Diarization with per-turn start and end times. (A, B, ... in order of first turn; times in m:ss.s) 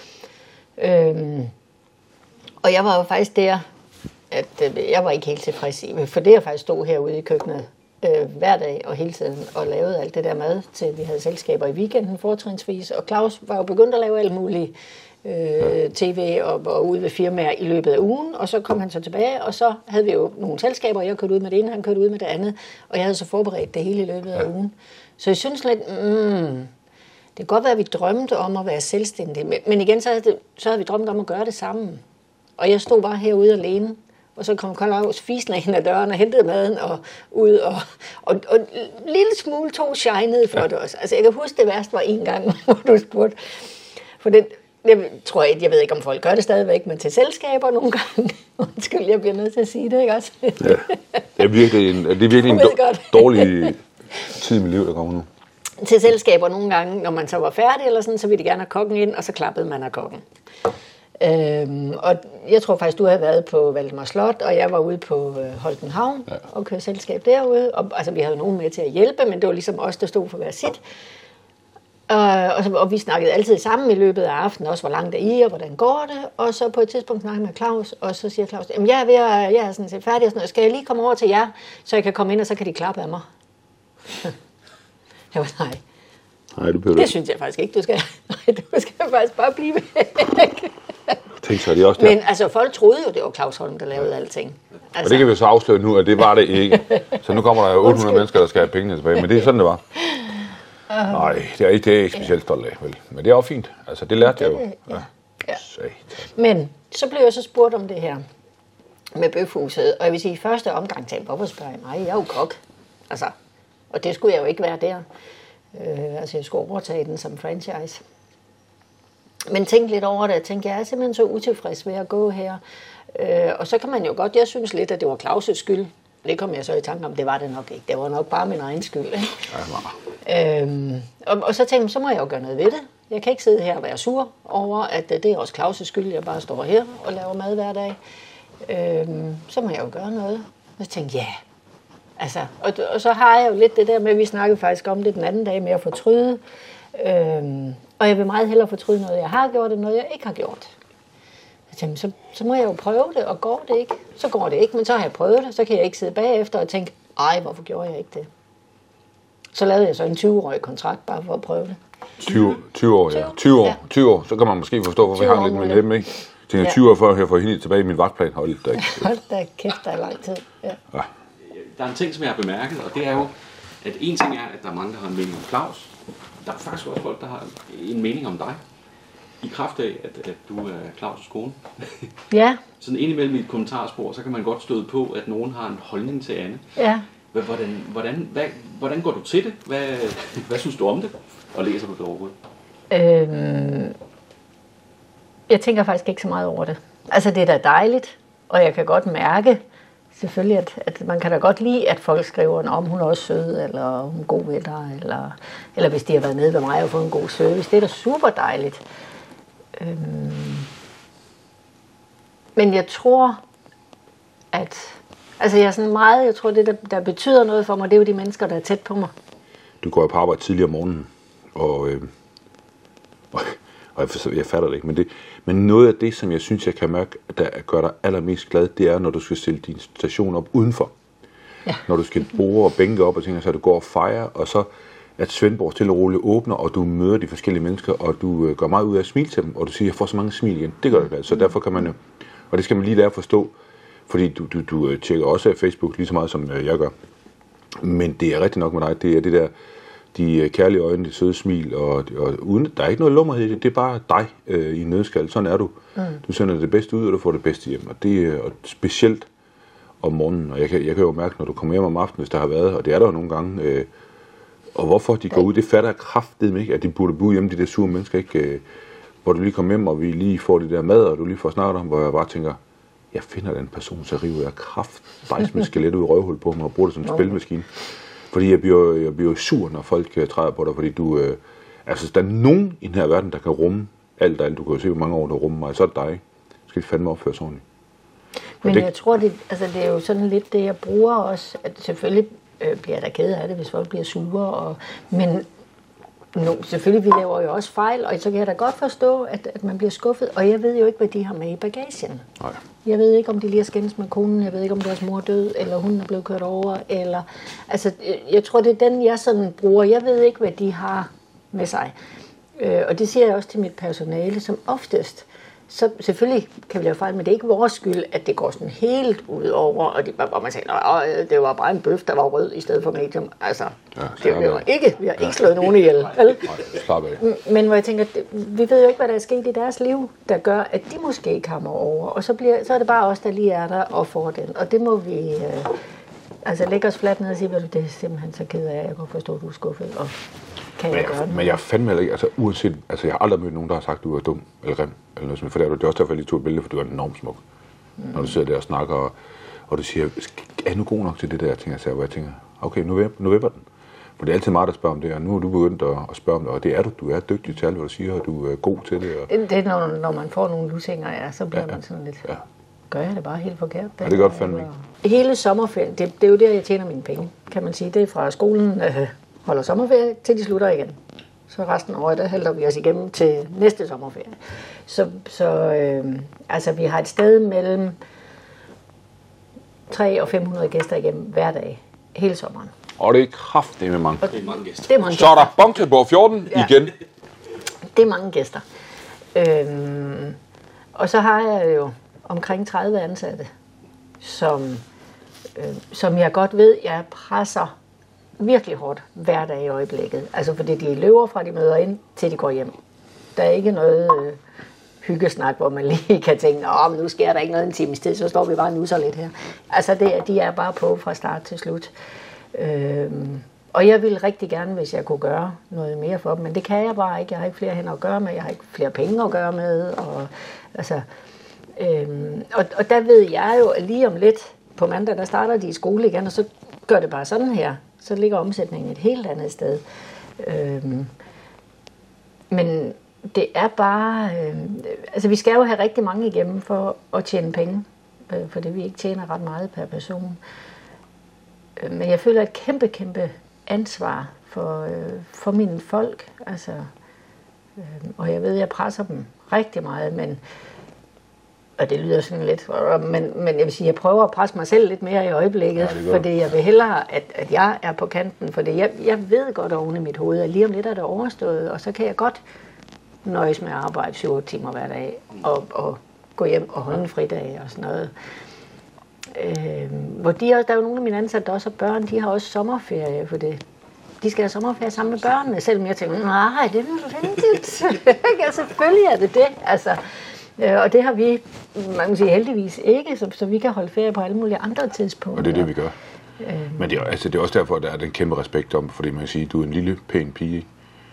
0:00.8-0:01.5 A
0:02.6-0:03.6 A
0:04.3-0:26.7 A
0:27.4-0:32.0 A
0:32.6-0:43.4 A
0:44.2-0:53.7 A
0:51.4-0:55.3 B
0:55.8-1:00.2 A
1:01.2-1:10.8 A
1:12.1-1:23.2 A
1:25.3-1:25.8 A
1:26.6-1:27.1 B
1:26.9-1:31.2 A
1:31.4-1:32.2 B
1:31.9-1:35.2 A
1:35.0-1:40.0 B
1:37.8-1:38.2 A
1:41.0-1:46.2 B
1:44.2-1:45.6 A
1:46.3-1:48.2 A
1:49.1-1:52.6 A
1:53.9-1:55.0 A
1:55.7-1:58.0 A
1:59.5-2:02.6 A
2:03.1-2:09.5 A
2:09.5-2:09.9 B
2:10.2-2:18.0 A
2:18.6-2:21.4 A
2:22.2-2:26.4 A
2:26.9-2:30.7 A
2:31.7-2:38.3 A
2:39.5-2:41.8 A
2:42.2-2:49.1 B
2:43.1-2:43.8 A
2:45.1-2:45.9 A
2:48.7-2:50.8 A
2:51.4-2:58.6 C
2:59.4-3:02.1 C
3:02.3-3:02.6 A
3:02.8-3:06.6 C
3:06.8-3:07.0 A
3:07.3-3:12.4 C
3:12.9-3:14.0 A
3:15.5-3:19.6 A
3:20.1-3:28.8 A
3:29.8-3:30.7 A
3:32.6-3:33.4 A
3:34.5-3:39.1 A
3:39.8-3:42.1 B
3:43.3-3:50.9 B
3:51.8-4:03.5 B
4:04.1-4:06.9 B
4:07.8-4:09.5 B
4:10.1-4:19.3 B
4:20.0-4:23.9 B
4:24.7-4:28.6 B
4:29.2-4:32.6 B
4:33.1-4:47.6 B
4:48.6-4:55.4 A
4:56.3-5:02.3 A
5:02.8-5:11.9 A
5:12.6-5:26.6 A
5:24.0-5:24.6 B
5:26.4-5:27.2 B
5:27.2-5:35.8 A
5:36.4-5:40.2 A
5:40.8-5:41.6 A
5:40.9-5:47.4 B
5:48.1-5:49.1 B
5:49.7-5:53.6 B
5:54.2-5:59.3 B
5:59.3-6:02.3 A
6:02.9-6:18.0 A
6:04.0-6:04.7 B
6:19.9-6:22.7 A
6:23.0-6:24.3 B
6:24.2-6:25.6 A
6:24.3-6:24.9 C
6:25.0-6:26.9 B
6:27.9-6:28.6 A
6:29.3-6:30.4 A
6:30.9-6:33.5 A
6:34.2-6:34.8 A
6:35.5-6:37.7 A
6:38.4-6:42.7 A
6:43.4-6:44.4 A
6:45.0-6:51.9 A
6:52.5-7:01.0 A
7:01.8-7:09.8 A
7:10.4-7:11.1 A
7:12.5-7:20.4 A
7:21.8-7:26.9 A
7:27.8-7:30.4 A
7:31.8-7:42.4 A
7:35.8-7:36.5 B
7:43.2-7:48.1 A
7:49.3-7:53.6 A
7:54.2-8:00.0 A
8:00.6-8:05.7 A
8:05.3-8:05.9 B
8:06.4-8:06.9 A
8:06.8-8:10.7 B